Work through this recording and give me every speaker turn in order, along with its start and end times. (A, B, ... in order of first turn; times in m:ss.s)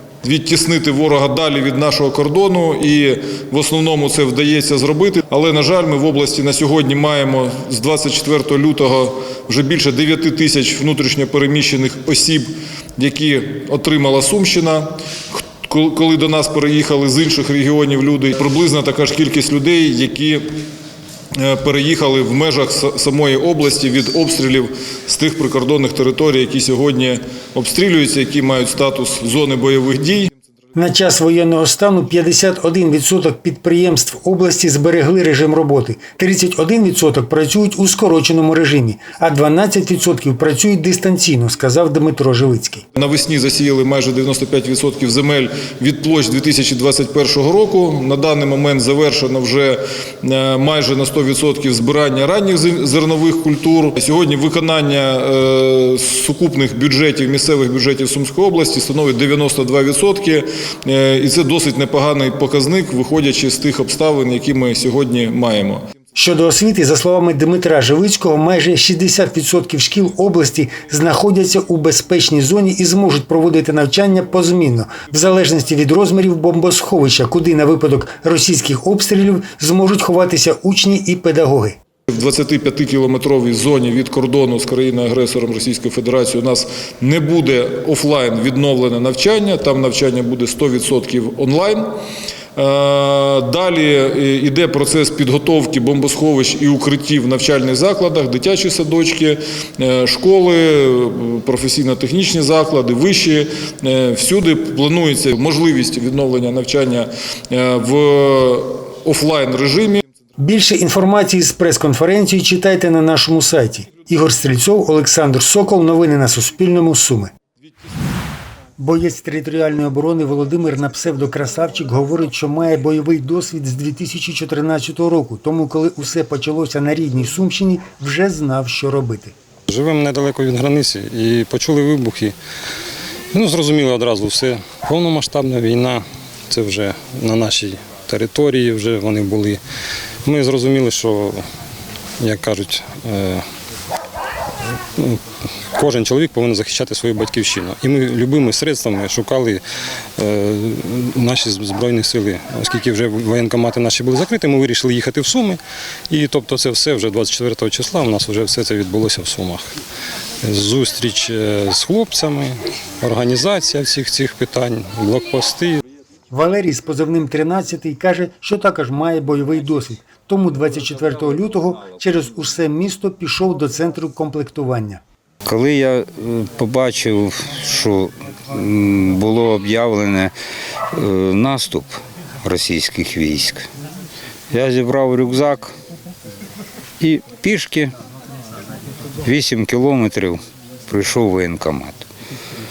0:00.2-0:20.5 A
0:21.3-0:30.3 A
0:30.7-0:42.8 B
0:42.9-1:05.9 A
1:06.2-1:21.8 B
1:22.1-1:31.9 A
1:32.6-1:50.0 A
1:50.4-1:57.3 B
1:58.8-2:09.3 B
2:09.7-2:12.3 C
2:13.3-2:19.6 C
2:20.2-2:21.4 C
2:22.2-2:23.4 C
2:25.0-2:25.2 C
2:25.7-2:29.6 C
2:30.2-2:39.7 C
2:40.4-2:45.8 C
2:46.3-2:55.0 B
2:55.4-3:00.3 D
3:00.9-3:03.6 D
3:04.5-3:05.7 D
3:07.0-3:07.9 D
3:09.2-3:12.1 D